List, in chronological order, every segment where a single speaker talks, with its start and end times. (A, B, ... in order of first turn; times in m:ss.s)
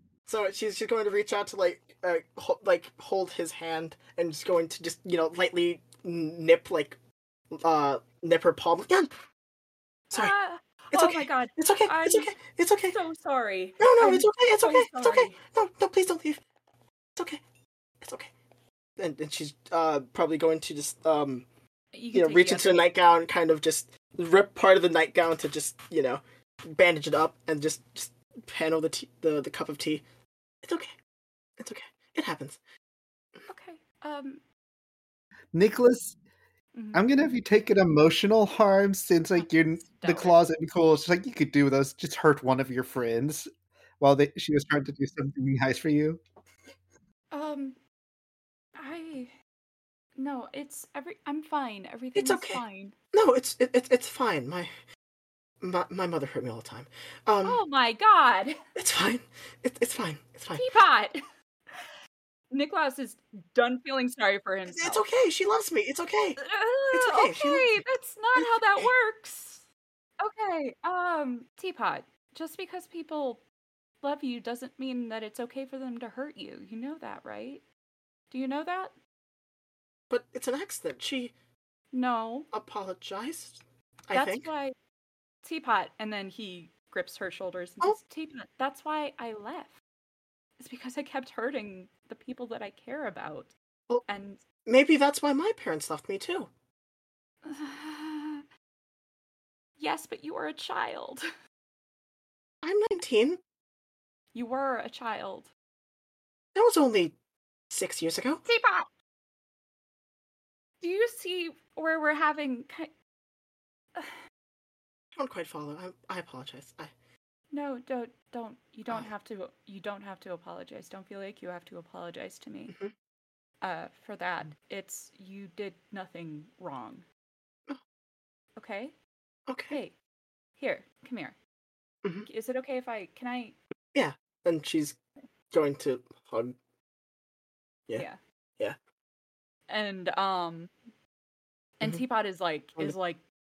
0:00.3-0:07.0 A
0:07.5-0:09.1 A
0:10.1-0:12.4 B
0:10.9-0:13.0 A
0:12.9-0:15.4 B
0:13.8-0:16.4 A
0:18.0-0:18.3 A
0:19.0-0:21.5 A
0:21.9-0:22.9 B
0:22.1-0:30.0 A
0:30.6-0:30.9 A
0:31.6-0:32.6 A
0:33.5-0:34.4 B
0:35.5-0:36.2 C
0:36.8-0:37.0 B
0:36.9-0:43.5 C
0:39.4-0:40.4 B
0:44.0-0:46.2 C
0:47.3-0:47.8 B
0:48.8-0:49.3 B
0:50.2-0:52.9 B
0:52.2-0:54.7 A
0:55.6-0:57.6 A
0:57.4-0:58.5 B
0:58.8-1:00.7 A
1:00.6-1:01.2 B
1:02.5-1:05.0 B
1:04.7-1:06.4 A
1:06.4-1:09.7 B
1:06.9-1:07.8 A
1:08.4-1:08.9 A
1:10.2-1:13.4 B
1:14.0-1:17.6 B
1:18.3-1:18.9 B
1:20.1-1:21.3 A
1:21.9-1:22.5 B
1:22.5-1:24.5 A
1:24.1-1:24.8 B
1:25.4-1:29.7 B
1:30.6-1:33.5 B
1:34.1-1:34.4 B
1:34.7-1:36.5 A
1:37.4-1:38.4 B
1:39.8-1:41.2 B
1:42.6-1:43.4 A
1:44.3-1:45.5 B
1:46.6-1:47.2 A
1:47.7-1:48.4 A
1:48.5-1:48.9 B
1:50.8-1:52.9 B
1:55.2-1:56.9 A
1:57.5-2:02.7 B
2:03.6-2:07.0 B
2:08.6-2:09.0 B
2:09.5-2:09.8 A
2:09.7-2:10.0 B
2:10.6-2:11.4 B
2:12.3-2:13.6 B
2:13.9-2:15.0 A
2:15.5-2:16.6 A
2:19.7-2:20.7 B
2:21.8-2:23.2 B